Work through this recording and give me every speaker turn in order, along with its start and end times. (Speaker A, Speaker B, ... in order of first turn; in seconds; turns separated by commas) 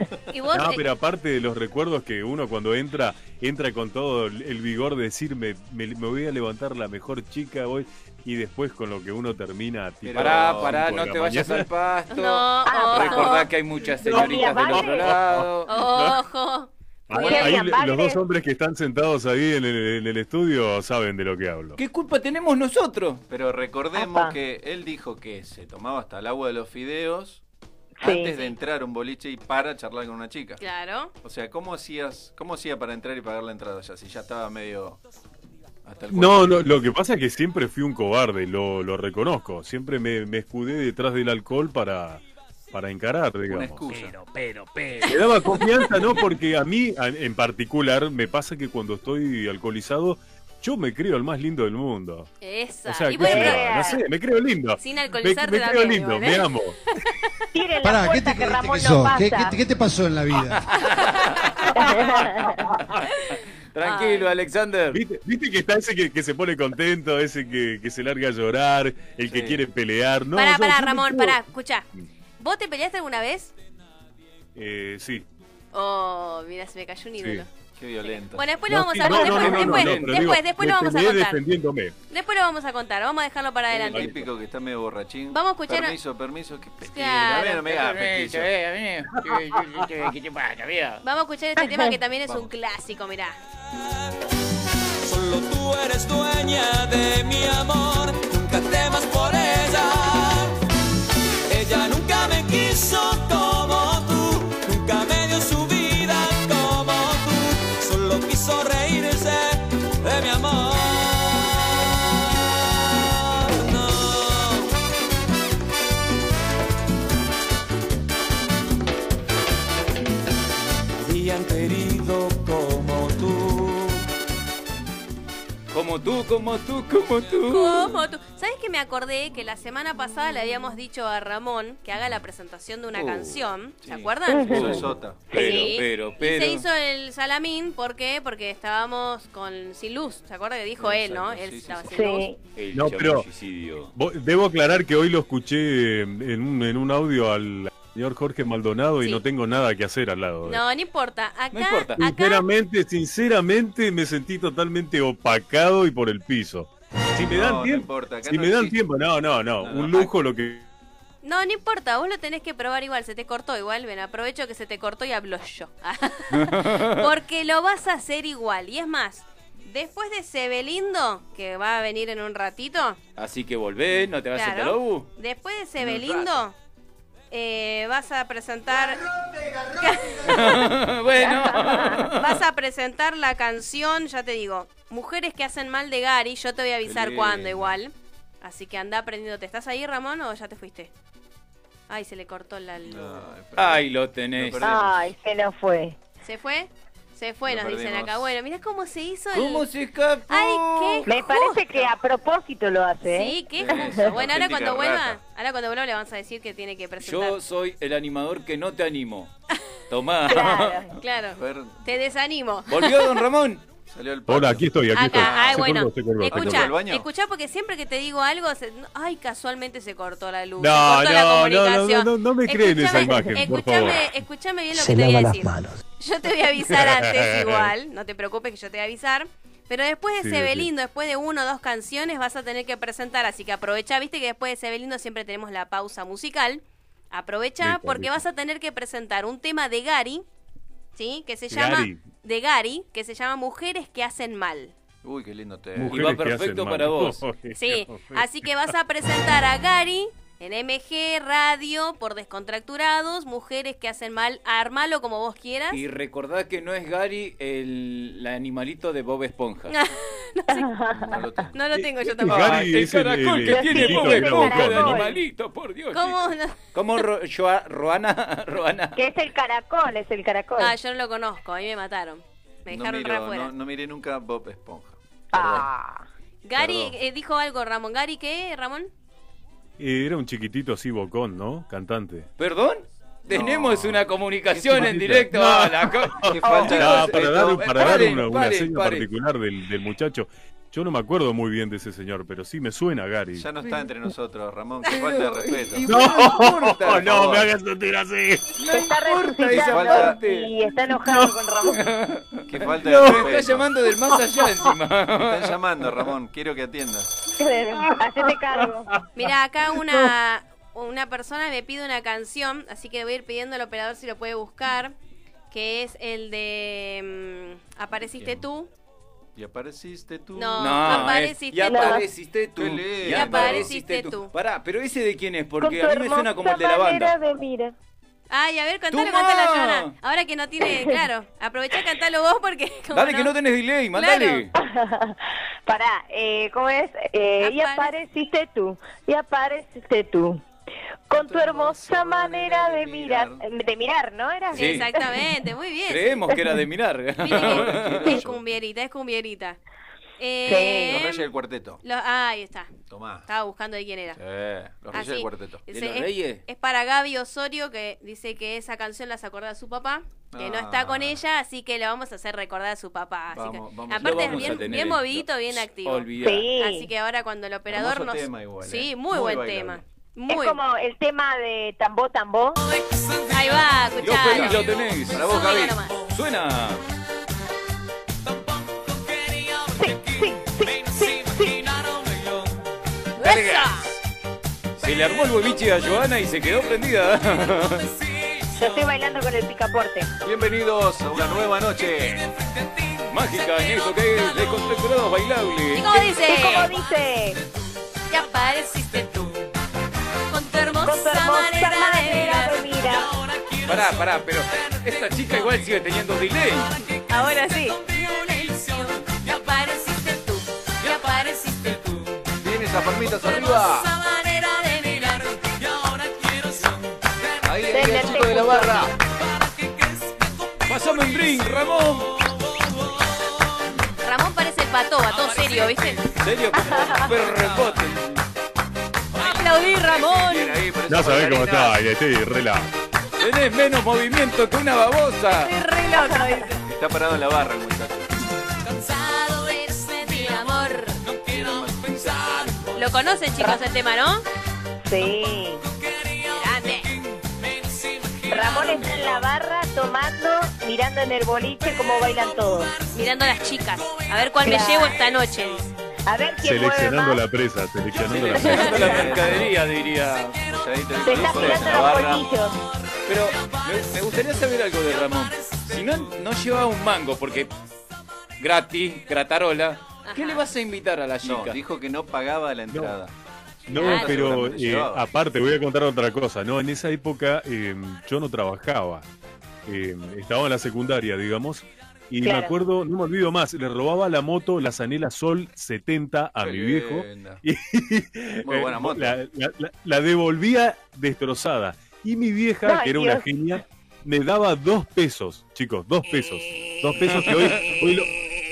Speaker A: 0.3-0.8, Speaker B: 0.5-11.7, Speaker C: 10.0-10.8, Speaker D: 10.1-15.7, Speaker A: 12.1-13.4, Speaker E: 12.7-13.4, Speaker B: 14.0-16.2, Speaker E: 14.1-15.1, Speaker A: 15.7-17.5, Speaker B: 17.1-21.8, Speaker E: 17.1-18.2, Speaker D: 21.8-23.2, Speaker C: 23.3-27.4, Speaker E: 23.9-24.3, Speaker E: 28.0-28.5, Speaker C: 28.0-30.6, Speaker A: 30.6-31.1, Speaker C: 31.2-35.0, Speaker C: 35.8-36.8, Speaker B: 36.1-43.9, Speaker C: 43.5-44.2, Speaker B: 45.1-52.3, Speaker A: 52.4-53.8, Speaker B: 52.9-56.8, Speaker E: 53.2-54.0, Speaker A: 54.8-56.5, Speaker E: 57.5-59.5, Speaker F: 57.8-60.6, Speaker D: 60.9-61.3, Speaker A: 60.9-62.0, Speaker E: 61.7-62.6, Speaker D: 63.7-65.0, Speaker A: 63.8-64.3, Speaker B: 64.9-71.4, Speaker C: 69.3-69.6, Speaker A: 70.3-71.8, Speaker A: 72.4-73.5, Speaker B: 74.5-75.3, Speaker A: 75.7-77.5, Speaker B: 77.2-77.4, Speaker C: 77.8-78.5, Speaker A: 78.0-81.4, Speaker B: 78.7-81.9, Speaker D: 79.1-80.2, Speaker A: 82.1-84.1, Speaker C: 83.7-88.5, Speaker B: 83.9-84.3, Speaker A: 85.3-86.0, Speaker A: 86.8-87.7, Speaker D: 87.7-91.0, Speaker B: 89.3-89.6, Speaker A: 91.0-93.4, Speaker E: 91.6-91.9, Speaker C: 92.2-92.5, Speaker G: 95.1-99.7, Speaker G: 101.5-109.5, Speaker G: 110.1-110.7, Speaker G: 121.0-124.0, Speaker D: 125.7-127.9, Speaker A: 127.5-134.8, Speaker D: 132.9-133.4, Speaker C: 133.8-135.6, Speaker E: 134.3-134.8, Speaker D: 134.5-136.6, Speaker A: 135.3-142.3, Speaker C: 140.8-142.2, Speaker E: 141.9-142.4, Speaker D: 142.6-143.9, Speaker B: 142.7-143.2, Speaker B: 143.9-150.6, Speaker A: 150.4-152.4, Speaker D: 151.5-152.0, Speaker B: 152.0-160.7, Speaker C: 157.3-158.8, Speaker C: 159.6-160.1, Speaker A: 161.2-173.0, Speaker D: 166.3-167.1, Speaker D: 173.2-175.1, Speaker A: 174.3-176.5, Speaker C: 175.8-176.4, Speaker A: 177.3-179.0, Speaker A: 179.8-180.7, Speaker D: 180.2-182.3, Speaker E: 181.2-182.1, Speaker A: 182.1-190.9, Speaker C: 186.8-187.8, Speaker A: 191.9-193.3, Speaker C: 192.8-194.9, Speaker D: 193.6-194.6, Speaker E: 194.6-196.0, Speaker A: 196.2-199.7, Speaker C: 197.4-198.3, Speaker D: 199.3-201.1, Speaker A: 200.3-201.6, Speaker E: 201.1-204.1, Speaker A: 203.1-207.4, Speaker C: 203.5-205.2, Speaker D: 207.0-209.3, Speaker D: 209.9-210.9, Speaker E: 210.3-210.9, Speaker A: 211.0-213.2, Speaker C: 211.3-211.9, Speaker D: 212.7-213.6, Speaker C: 213.9-215.7, Speaker B: 214.3-216.7, Speaker A: 214.9-240.2, Speaker C: 216.3-217.1, Speaker B: 220.6-224.1, Speaker F: 224.9-225.7, Speaker B: 226.6-227.7, Speaker B: 230.2-230.7, Speaker B: 237.6-238.2, Speaker A: 240.9-244.7, Speaker B: 241.5-242.0, Speaker C: 245.0-246.1, Speaker B: 245.8-248.5, Speaker D: 245.9-247.2, Speaker A: 247.6-255.8, Speaker D: 255.7-259.7, Speaker A: 259.7-260.7, Speaker E: 260.5-261.2, Speaker C: 260.9-261.6, Speaker A: 261.5-262.7, Speaker B: 261.8-265.0, Speaker D: 262.3-269.0, Speaker E: 263.5-265.2, Speaker A: 265.9-266.6, Speaker E: 268.9-270.7, Speaker A: 270.6-273.5, Speaker C: 272.7-275.7, Speaker E: 275.3-276.0, Speaker A: 276.4-278.9, Speaker B: 279.8-282.3, Speaker D: 282.4-289.1, Speaker C: 283.3-284.1, Speaker B: 284.6-293.5, Speaker C: 284.7-285.0, Speaker C: 286.2-288.1, Speaker C: 293.3-295.9, Speaker D: 294.9-297.5, Speaker B: 295.8-298.4, Speaker C: 296.9-297.5, Speaker D: 298.6-300.5, Speaker E: 298.7-301.8, Speaker C: 299.5-300.2, Speaker D: 301.6-305.6, Speaker C: 302.5-303.7, Speaker B: 302.8-303.3, Speaker C: 305.1-307.1, Speaker E: 307.4-308.9, Speaker A: 309.1-314.9, Speaker A: 315.5-318.7, Speaker C: 318.1-318.4, Speaker C: 319.4-321.2, Speaker A: 320.4-322.0, Speaker D: 320.6-327.1, Speaker E: 321.6-322.1, Speaker C: 322.5-323.7, Speaker A: 323.1-324.3, Speaker E: 325.6-327.7, Speaker A: 328.3-333.3, Speaker D: 328.9-329.9, Speaker D: 332.9-334.5, Speaker A: 333.9-334.4, Speaker E: 334.6-340.4, Speaker A: 337.4-337.9, Speaker E: 341.1-345.2, Speaker C: 341.2-343.4, Speaker A: 344.5-346.3, Speaker D: 344.5-344.8, Speaker D: 345.9-348.3, Speaker A: 347.2-349.6, Speaker C: 347.4-348.4, Speaker A: 350.2-351.2, Speaker E: 350.4-351.0, Speaker C: 350.9-351.8, Speaker A: 351.8-352.7, Speaker C: 352.9-353.3, Speaker A: 353.2-354.2, Speaker C: 354.1-355.6, Speaker A: 354.9-370.6, Speaker D: 355.7-356.4, Speaker C: 360.3-361.2, Speaker C: 363.3-365.0, Speaker D: 364.0-366.4, Speaker E: 366.2-366.9, Speaker C: 367.7-369.8, Speaker E: 370.3-372.6, Speaker A: 373.3-375.9, Speaker D: 374.0-376.8, Speaker C: 374.0-375.8, Speaker E: 379.8-381.6, Speaker A: 383.2-383.9, Speaker D: 383.2-383.7, Speaker D: 384.8-387.9, Speaker E: 388.5-390.1, Speaker C: 390.2-392.2, Speaker D: 393.1-396.2, Speaker A: 395.7-396.7, Speaker E: 396.3-397.4, Speaker A: 398.1-399.3, Speaker A: 400.3-402.6, Speaker E: 400.8-403.1, Speaker D: 403.6-406.8, Speaker A: 407.1-412.0, Speaker C: 412.4-413.9, Speaker A: 413.2-415.4, Speaker C: 417.4-418.9, Speaker E: 417.7-418.8, Speaker D: 418.2-418.7, Speaker D: 420.7-422.2, Speaker A: 424.0-426.0, Speaker D: 425.9-428.2, Speaker E: 426.5-427.1, Speaker A: 429.1-430.6, Speaker C: 429.8-431.8, Speaker B: 430.9-432.7, Speaker D: 433.2-435.5, Speaker A: 435.4-436.5, Speaker E: 435.9-436.4, Speaker C: 436.6-438.1, Speaker A: 438.9-441.0, Speaker D: 441.1-442.4, Speaker C: 441.2-442.8, Speaker A: 442.8-444.2, Speaker E: 444.8-445.6, Speaker A: 446.3-446.9, Speaker E: 448.3-452.7, Speaker A: 452.9-455.7, Speaker E: 454.4-455.0, Speaker E: 456.1-457.2, Speaker B: 456.4-459.4, Speaker D: 458.0-460.5, Speaker C: 458.4-459.7, Speaker E: 458.6-459.0, Speaker C: 460.4-462.3, Speaker E: 461.0-462.6, Speaker D: 461.2-461.9, Speaker D: 463.1-467.5, Speaker D: 468.4-471.6, Speaker A: 470.0-470.4, Speaker C: 471.2-473.1, Speaker B: 472.7-472.9, Speaker C: 473.6-475.0, Speaker B: 473.7-479.1, Speaker A: 473.8-474.1, Speaker B: 479.6-498.1, Speaker E: 482.2-482.5, Speaker C: 486.4-487.4, Speaker C: 488.4-489.2, Speaker E: 492.6-493.2